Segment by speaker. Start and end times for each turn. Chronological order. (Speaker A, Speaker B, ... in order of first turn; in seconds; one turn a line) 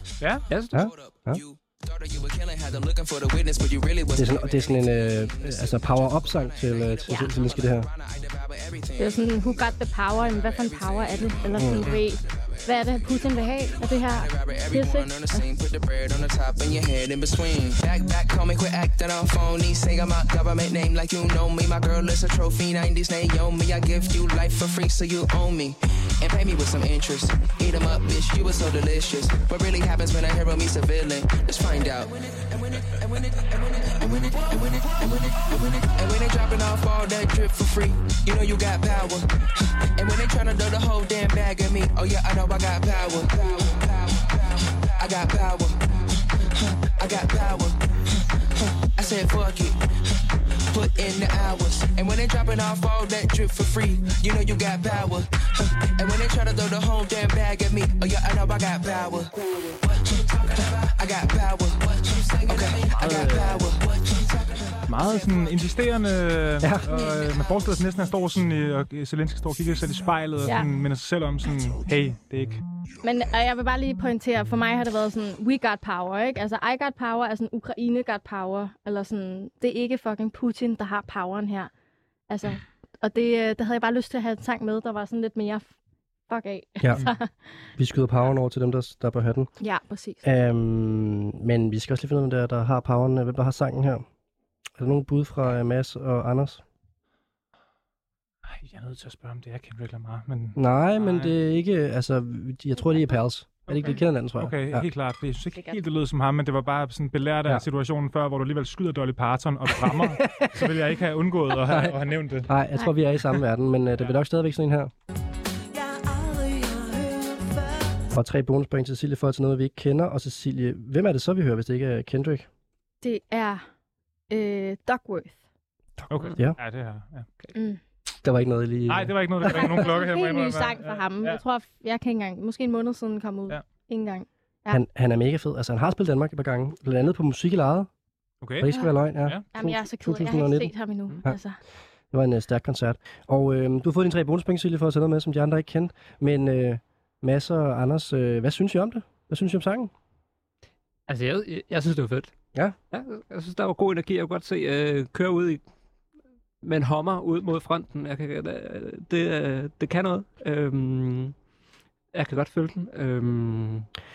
Speaker A: 0.5-0.9
Speaker B: 0.7-12.9
Speaker C: 0.7-1.4
Speaker C: 4.1-7.9
Speaker D: 7.1-7.3
Speaker D: 9.0-15.4
Speaker C: 11.6-11.9
Speaker B: 13.7-45.9
Speaker B: 46.5-47.8
Speaker B: 48.6-49.9
Speaker B: 50.7-65.2
Speaker E: 62.9-63.7
Speaker E: 64.9-72.6
Speaker C: 66.6-66.9
Speaker D: 70.4-70.7
Speaker D: 73.0-81.7
Speaker D: 82.3-85.7
Speaker D: 86.3-87.3
Speaker C: 86.8-87.1
Speaker C: 87.8-89.5
Speaker D: 89.6-90.2
Speaker C: 90.2-94.0
Speaker C: 94.8-96.6
Speaker E: 98.5-101.3
Speaker C: 100.5-104.9
Speaker E: 103.7-112.5
Speaker D: 105.5-105.8
Speaker C: 110.0-110.7
Speaker C: 111.7-114.9
Speaker C: 118.1-122.5
Speaker D: 123.0-123.6
Speaker D: 124.3-125.4
Speaker C: 126.0-126.6
Speaker E: 126.1-127.3
Speaker D: 127.5-127.8
Speaker C: 128.2-129.3
Speaker E: 128.9-131.4
Speaker D: 129.5-134.8
Speaker C: 134.7-137.9
Speaker E: 138.4-138.7
Speaker C: 138.6-141.4
Speaker D: 139.5-141.6
Speaker C: 142.1-149.9
Speaker A: 151.1-152.3
Speaker A: 152.9-155.6
Speaker A: 156.6-161.3
Speaker A: 162.1-163.9